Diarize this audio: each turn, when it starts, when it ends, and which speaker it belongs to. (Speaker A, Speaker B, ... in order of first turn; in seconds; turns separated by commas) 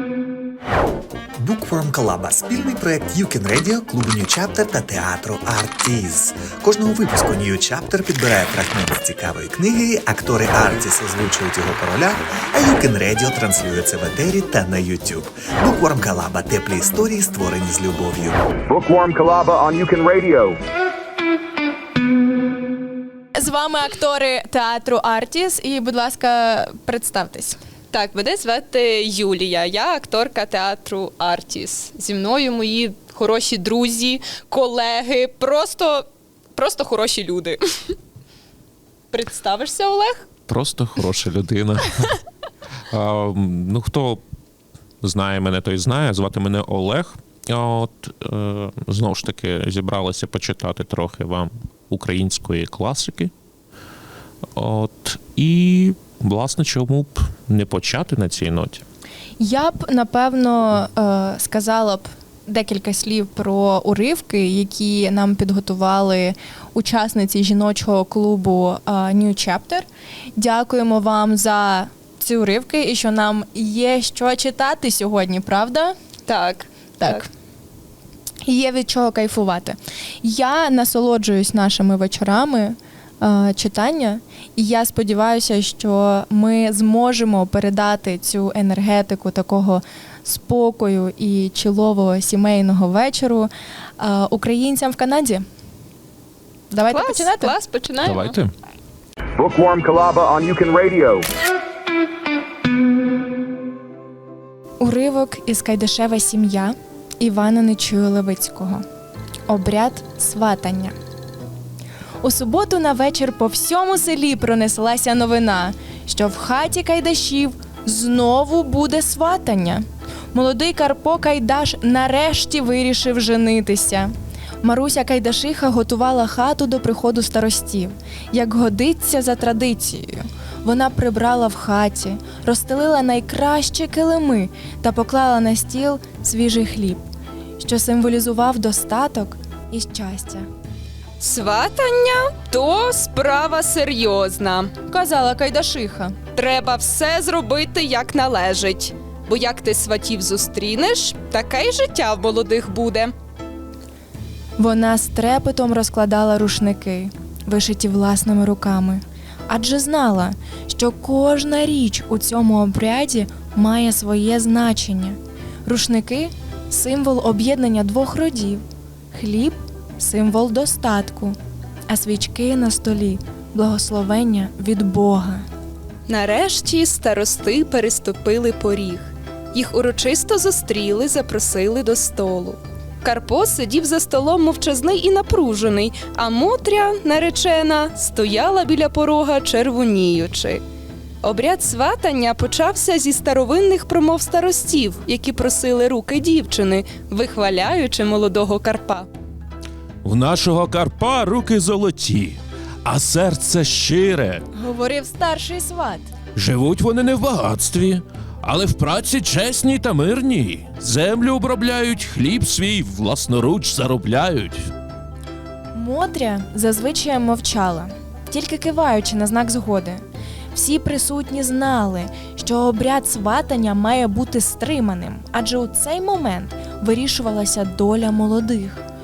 Speaker A: 1.4-18.4, Speaker B: 18.7-20.6, Speaker C: 23.4-27.6, Speaker D: 27.9-38.0, Speaker D: 39.1-40.3, Speaker E: 40.5-42.2, Speaker E: 42.9-44.2, Speaker E: 45.0-53.3, Speaker E: 54.6-58.8, Speaker C: 59.4-76.0, Speaker D: 76.3-77.2, Speaker C: 77.0-77.3, Speaker C: 78.4-95.4, Speaker C: 96.7-97.5, Speaker D: 96.9-98.3, Speaker E: 98.0-98.5, Speaker B: 99.3-101.3, Speaker C: 104.8-108.8, Speaker C: 109.5-111.0, Speaker C: 112.2-137.1, Speaker C: 137.6-140.5, Speaker D: 141.2-144.7, Speaker C: 144.9-146.2, Speaker D: 146.3-153.1, Speaker C: 154.6-171.4, Speaker C: 171.9-175.4, Speaker D: 176.1-190.6, Speaker D: 191.2-199.1, Speaker F: 200.0-204.4, Speaker C: 204.5-206.1, Speaker F: 206.4-214.7, Speaker C: 215.7-220.0, Speaker C: 220.5-228.8